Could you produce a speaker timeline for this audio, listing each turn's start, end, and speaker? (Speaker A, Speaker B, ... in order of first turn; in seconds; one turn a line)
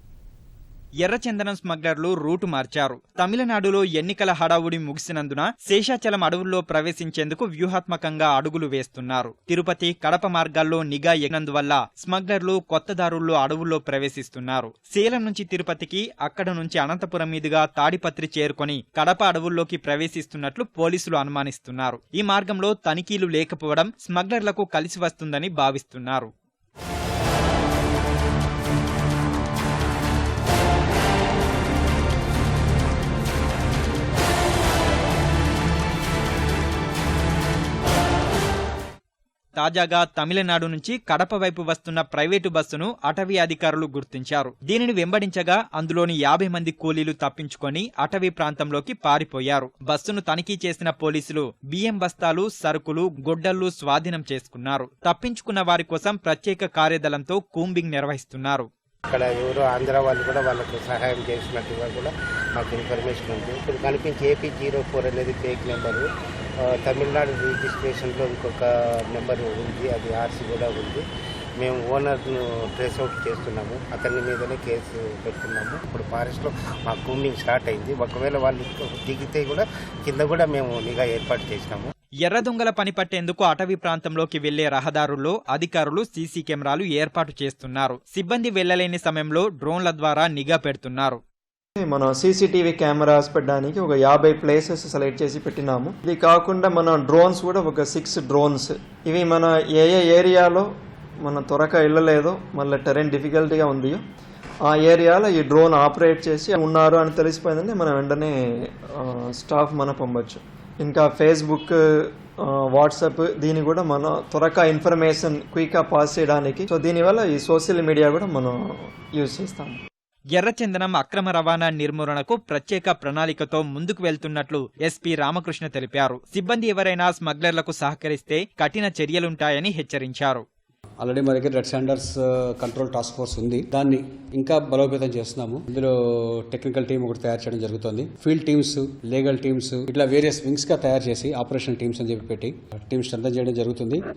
Speaker A: 1.0-26.3
Speaker A: 39.6-58.7
Speaker B: 59.1-66.0
Speaker B: 66.7-68.6
Speaker B: 69.1-71.0
Speaker B: 71.6-81.9
Speaker A: 82.2-91.2
Speaker C: 91.8-100.7
Speaker C: 101.2-104.0
Speaker C: 104.7-118.6
Speaker C: 119.1-119.8
Speaker A: 120.3-130.4
Speaker D: 131.0-144.0